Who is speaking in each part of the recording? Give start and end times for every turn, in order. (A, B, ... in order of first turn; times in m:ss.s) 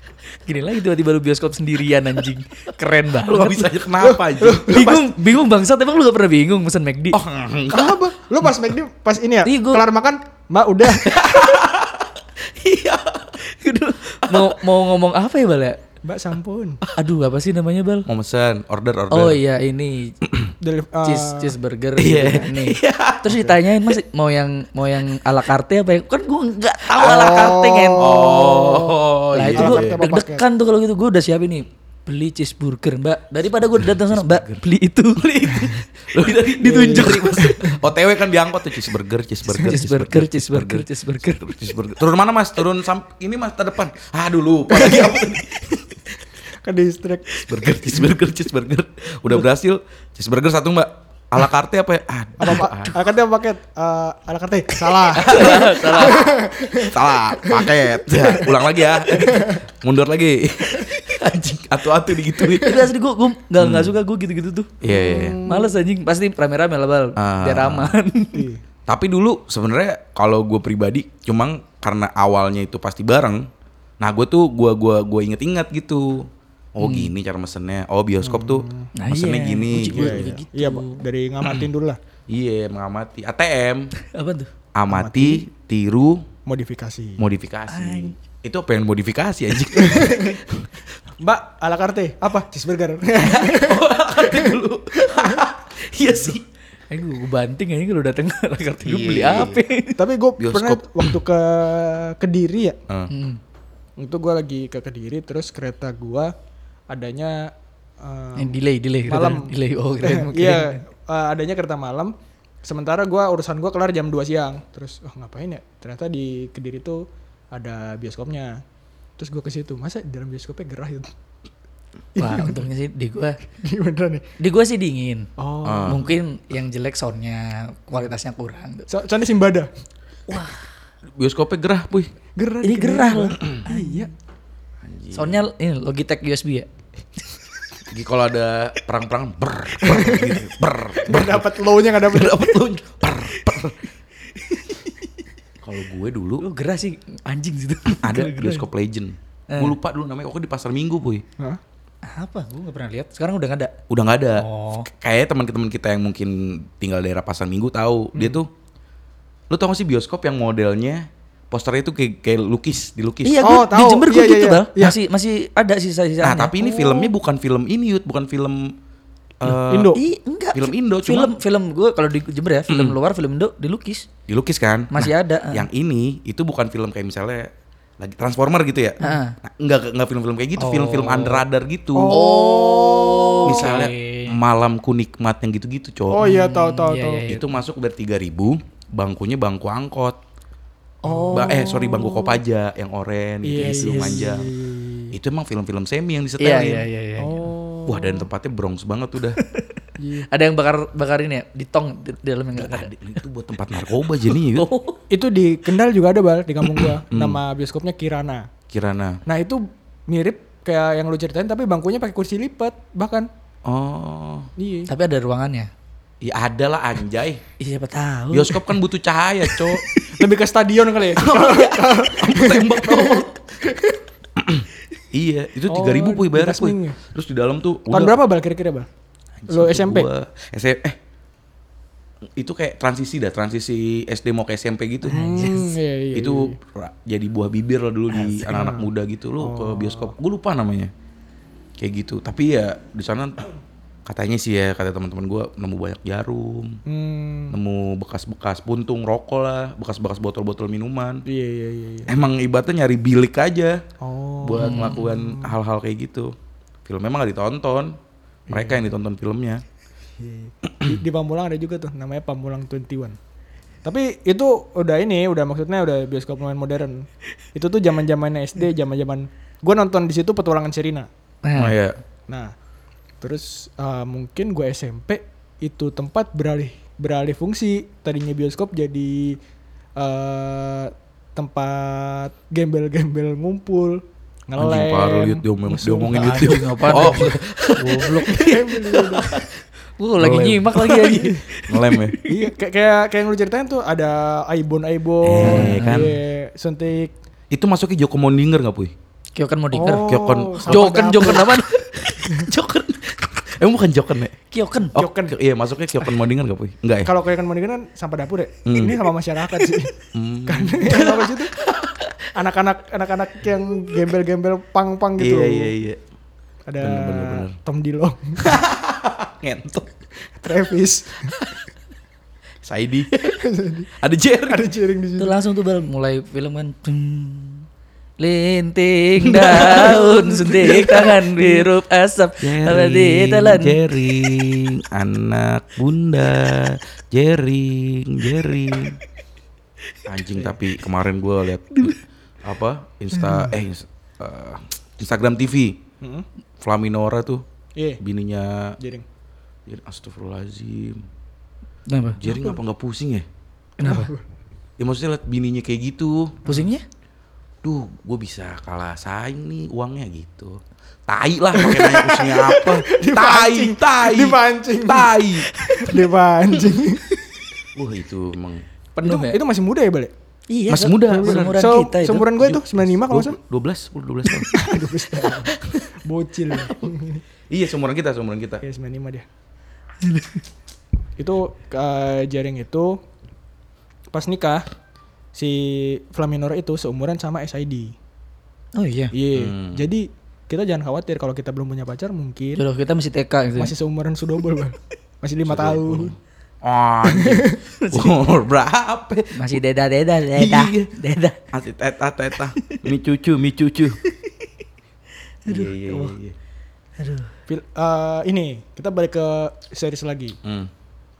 0:00.4-0:03.8 A
0:03.2-0:05.0 B
0:04.0-0:05.0 C
0:04.6-0:07.2 A
0:07.1-0:08.0 B
0:07.7-0:11.2 C
0:09.4-0:09.8 A
0:11.0-0:13.4 B
0:11.2-0:11.6 A
0:13.4-0:15.8 A
0:14.2-0:14.6 B
0:16.0-0:16.8 C
0:16.9-0:18.1 A
0:18.0-0:19.4 B
0:19.1-0:20.2 A
0:20.2-0:20.5 B
0:20.6-0:21.5 C
0:21.0-0:28.2 A
0:22.0-0:23.9 B
0:26.8-0:30.0 B
0:27.0-0:28.9 C
0:29.3-0:35.8 A
0:29.5-0:30.4 C
0:33.7-0:34.6 B
0:35.2-0:45.8 B
0:36.6-0:37.6 A
0:36.6-0:37.7 C
0:39.5-0:41.5 A
0:44.8-0:45.2 C
0:46.6-0:47.4 C
0:47.5-0:53.0 B
0:52.4-0:58.6 C
0:55.1-1:02.8 B
0:55.2-0:56.4 A
0:59.1-0:59.6 C
1:02.4-1:04.7 A
1:03.6-1:03.9 B
1:04.8-1:05.4 B
1:04.8-1:05.8 C
1:05.4-1:08.5 A
1:07.2-1:08.0 B
1:08.3-1:08.6 C
1:08.9-1:13.4 B
1:14.0-1:20.3 B
1:16.8-1:17.1 A
1:18.2-1:18.9 C
1:18.9-1:21.0 A
1:19.7-1:22.0 C
1:22.3-1:23.9 B
1:24.0-1:24.5 A
1:24.8-1:26.2 B
1:24.9-1:25.4 C
1:26.4-1:27.2 C
1:27.2-1:30.7 B
1:27.7-1:28.1 A
1:29.7-1:30.4 C
1:31.2-1:35.4 C
1:33.2-1:36.4 B
1:36.1-1:36.3 A
1:36.9-1:40.0 A
1:38.8-1:39.6 B
1:40.0-1:42.8 C
1:40.4-1:41.1 B
1:43.1-1:43.4 A
1:44.0-1:46.3 C
1:46.9-1:58.6 C
1:48.4-1:50.8 A
1:59.2-2:01.1 C
2:02.2-2:02.6 C
2:02.2-2:03.4 A
2:03.6-2:04.3 C
2:04.4-2:05.3 A
2:05.4-2:06.1 C
2:05.6-2:06.1 B
2:05.8-2:08.9 A
2:08.9-2:09.7 C
2:10.3-2:10.6 A
2:11.2-2:12.1 B
2:12.4-2:14.1 C
2:12.6-2:14.1 A
2:14.8-2:15.4 B
2:15.1-2:16.7 A
2:17.9-2:23.8 B
2:19.8-2:20.4 C
2:21.0-2:22.6 C
2:25.6-2:26.4 B
2:26.4-2:28.6 A
2:28.0-2:31.2 B
2:29.5-2:29.8 A
2:32.1-2:33.7 A
2:33.9-2:38.5 B
2:34.4-2:34.9 A
2:39.5-2:43.4 B
2:43.2-2:46.5 A
2:43.4-2:45.0 C
2:46.2-2:48.8 B
2:46.6-2:47.1 C
2:49.4-2:50.0 B
2:49.6-2:50.0 C
2:49.9-2:54.1 A
2:50.5-2:51.3 B
2:52.7-2:53.0 B
2:54.3-3:02.2 B
2:54.9-2:55.6 A
2:59.0-2:59.4 A
3:00.6-3:01.4 A
3:01.9-3:03.8 C
3:02.1-3:04.4 A
3:03.4-3:06.3 B
3:06.1-3:07.3 C
3:06.2-3:07.4 A
3:07.3-3:10.2 B
3:11.0-3:12.4 C
3:11.0-3:11.6 A
3:11.3-3:14.5 B
3:13.4-3:15.1 C
3:13.6-3:14.2 A
3:15.1-3:16.8 B
3:16.4-3:17.5 A
3:17.2-3:18.3 C
3:17.8-3:19.4 B
3:19.4-3:22.9 A
3:20.0-3:20.3 C
3:22.5-3:24.7 B
3:24.2-3:25.0 A
3:25.1-3:28.5 C
3:27.1-3:27.4 B
3:28.7-3:29.2 B
3:29.2-3:33.3 C
3:33.6-3:34.5 B
3:34.6-3:34.9 C
3:34.9-3:35.7 A
3:36.2-3:37.4 B
3:37.6-3:38.8 A
3:38.3-3:39.8 B
3:39.5-3:40.1 A
3:40.1-3:44.0 C
3:41.2-3:43.6 B
3:44.4-3:48.2 B
3:45.7-3:47.0 C
3:47.9-3:48.9 C
3:49.4-3:51.0 B
3:49.5-3:50.1 C
3:52.4-3:55.2 B
3:55.0-3:55.7 A
3:55.1-3:56.5 C
3:56.1-4:00.9 B
3:58.1-3:58.5 A
3:58.4-3:58.9 C
3:59.4-4:00.1 C
4:01.8-4:03.5 B
4:04.0-4:06.8 B
4:06.8-4:07.6 C
4:07.5-4:11.2 B
4:11.3-4:12.2 C
4:12.1-4:13.8 B
4:14.0-4:15.6 C
4:14.4-4:16.3 B
4:14.6-4:15.0 A
4:16.8-4:18.0 B
4:18.5-4:18.9 C
4:18.5-4:19.6 B
4:20.2-4:23.2 C
4:23.8-4:31.1 C
4:31.4-4:31.8 A
4:31.6-4:32.0 B
4:32.3-4:32.5 C
4:33.2-4:39.4 C
4:40.0-4:46.6 C
4:44.6-4:49.5 B
4:46.1-4:48.6 A
4:48.3-4:49.4 C
4:50.0-4:52.5 A
4:50.2-4:52.2 B
4:52.3-4:57.1 C
4:55.2-4:56.2 B
4:55.4-4:56.0 A
4:57.5-4:58.9 B
4:59.4-5:00.1 A
4:59.7-5:01.5 C
5:00.0-5:00.8 B
5:00.7-5:01.8 A
5:01.7-5:04.4 B
5:04.5-5:04.9 A
5:04.9-5:07.1 B
5:05.0-5:05.3 C
5:07.0-5:09.9 C
5:08.6-5:09.0 B
5:10.1-5:12.2 B
5:10.5-5:11.5 C
5:12.3-5:15.7 C
5:15.2-5:16.0 B
5:16.7-5:18.5 C
5:16.8-5:17.5 B
5:18.4-5:20.0 B
5:20.4-5:21.4 C
5:21.3-5:21.6 B
5:22.6-5:23.4 B
5:23.2-5:23.9 C
5:24.0-5:24.7 B
5:24.4-5:25.4 C
5:25.2-5:27.6 A
5:28.2-5:33.8 A
5:29.3-5:31.1 B
5:30.6-5:31.1 C
5:32.4-5:39.0 B
5:40.0-5:45.8 B
5:43.2-5:43.5 A
5:46.0-5:46.2 C
5:46.6-5:47.4 B
5:47.8-5:48.0 C
5:48.0-5:48.8 B
5:48.8-5:49.0 C
5:49.6-5:51.0 B
5:51.9-5:52.2 A
5:52.2-5:53.2 B
5:52.3-5:52.6 C
5:53.8-5:54.1 A
5:53.8-5:54.2 C
5:54.8-5:56.4 B
5:56.4-5:56.8 A
5:57.6-6:05.5 B
6:01.5-6:07.1 C
6:05.6-6:05.9 A
6:07.7-6:08.6 B
6:09.0-6:10.1 C
6:09.0-6:09.4 A
6:10.5-6:12.3 A
6:10.7-6:11.7 B
6:11.1-6:13.4 C
6:12.4-6:14.5 B
6:14.5-6:17.2 C
6:15.6-6:15.8 B
6:17.5-6:18.6 B
6:18.6-6:19.2 C
6:20.0-6:20.4 A
6:21.2-6:23.0 C
6:24.1-6:24.6 C
6:25.3-6:27.9 C
6:28.8-6:29.1 A
6:29.1-6:32.6 C
6:29.3-6:29.8 B
6:32.6-6:33.7 A
6:33.6-6:36.1 C
6:35.4-6:39.6 B
6:37.0-6:37.6 C
6:37.8-6:38.2 A
6:39.3-6:41.4 A
6:40.3-6:40.9 B
6:41.5-6:44.0 B
6:44.0-6:44.3 A
6:45.4-6:45.8 A
6:45.5-6:46.3 B
6:47.0-6:47.3 A
6:47.5-6:50.4 C
6:50.4-6:50.7 B